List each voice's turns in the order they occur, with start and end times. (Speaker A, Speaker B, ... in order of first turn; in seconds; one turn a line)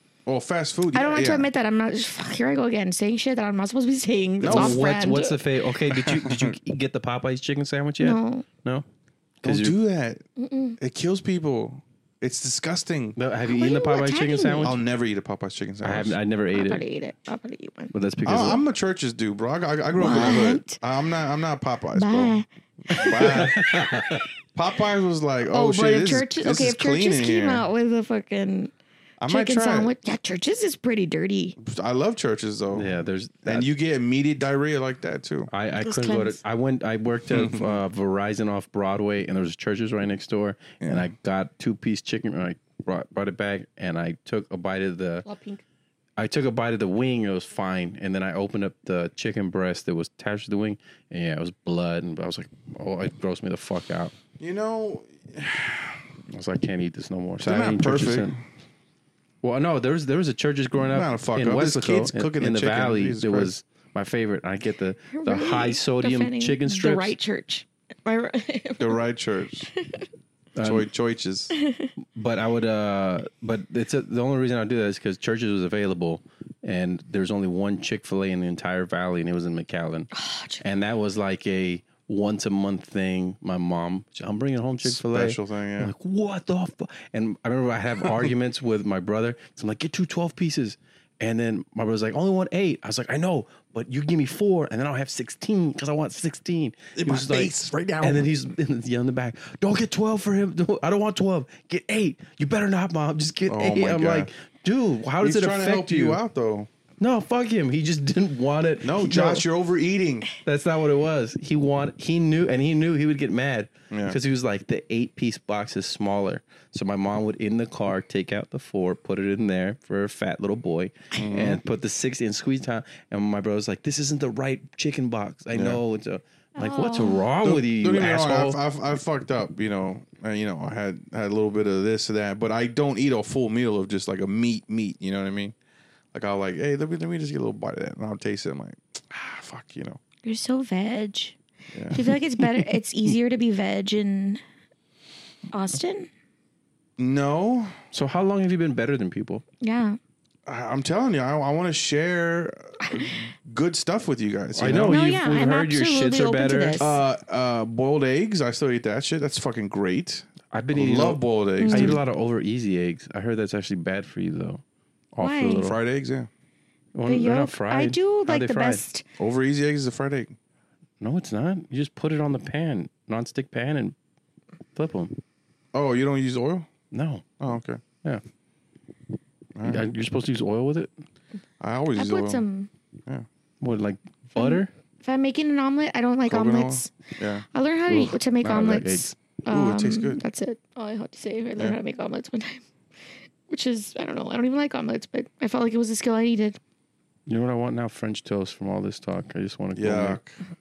Speaker A: 0.3-1.5
Speaker B: 0.9-5.4
Speaker A: 4.4-5.0
Speaker C: 4.4-8.8
Speaker A: 5.9-6.6
Speaker B: 8.0-8.5
Speaker C: 9.4-9.8
Speaker A: 9.4-10.2
Speaker B: 10.4-10.8
Speaker A: 10.8-13.2
Speaker C: 13.2-14.8
Speaker B: 13.4-14.8
Speaker A: 14.6-16.2
Speaker C: 15.8-16.8
Speaker B: 16.5-17.9
Speaker C: 17.9-18.6
Speaker A: 18.2-23.8
Speaker B: 20.0-20.8
Speaker B: 22.0-23.5
Speaker C: 23.1-24.3
Speaker A: 24.6-27.6
Speaker B: 25.5-28.7
Speaker A: 29.2-29.9
Speaker B: 29.3-31.6
Speaker A: 31.6-35.5
Speaker C: 32.7-33.7
Speaker C: 35.5-45.3
Speaker B: 35.8-36.4
Speaker A: 37.3-37.8
Speaker A: 40.8-41.1
Speaker B: 45.2-45.6
Speaker C: 46.2-54.1
Speaker A: 54.4-56.0
Speaker C: 56.3-58.4
Speaker A: 57.4-58.4
Speaker C: 59.4-67.2
Speaker A: 60.9-63.5
Speaker B: 65.1-69.0
Speaker A: 68.8-69.7
Speaker B: 69.8-70.1
Speaker C: 70.5-70.9
Speaker A: 70.6-71.5
Speaker B: 71.5-71.9
Speaker C: 72.0-80.1
Speaker B: 80.1-80.6
Speaker C: 80.6-106.2
Speaker A: 84.8-85.9
Speaker A: 97.0-98.3
Speaker A: 103.5-104.3
Speaker A: 105.2-106.7
Speaker C: 107.0-109.5
Speaker A: 108.8-110.3
Speaker C: 110.4-128.6
Speaker A: 113.9-114.2
Speaker A: 121.1-121.6
Speaker A: 125.5-125.8
Speaker B: 126.6-127.3
Speaker A: 127.4-135.5
Speaker A: 136.1-140.0
Speaker B: 140.2-141.4
Speaker A: 141.7-142.0
Speaker B: 141.9-144.4
Speaker C: 142.4-142.7
Speaker B: 145.5-146.1
Speaker A: 147.0-147.8
Speaker C: 147.9-149.4
Speaker B: 149.6-150.0
Speaker A: 150.5-155.0
Speaker B: 152.8-153.1
Speaker C: 154.6-156.8
Speaker B: 154.8-157.0
Speaker A: 156.8-162.0
Speaker C: 160.5-164.6
Speaker B: 161.6-162.0
Speaker C: 165.2-165.8
Speaker B: 165.2-165.7
Speaker A: 165.6-166.3
Speaker C: 166.9-168.8
Speaker B: 167.1-169.0
Speaker A: 169.2-170.3
Speaker C: 171.0-173.9
Speaker C: 174.8-175.2
Speaker A: 175.7-176.7
Speaker C: 176.9-177.3
Speaker A: 177.4-177.8
Speaker A: 179.6-179.9
Speaker C: 179.6-180.9
Speaker A: 181.6-182.4
Speaker B: 182.0-182.7
Speaker C: 183.6-184.7
Speaker B: 184.4-186.9
Speaker A: 186.3-187.4
Speaker B: 187.5-192.6
Speaker C: 187.9-189.1
Speaker A: 189.5-190.2
Speaker B: 193.5-196.6
Speaker C: 197.3-200.2
Speaker A: 199.8-200.4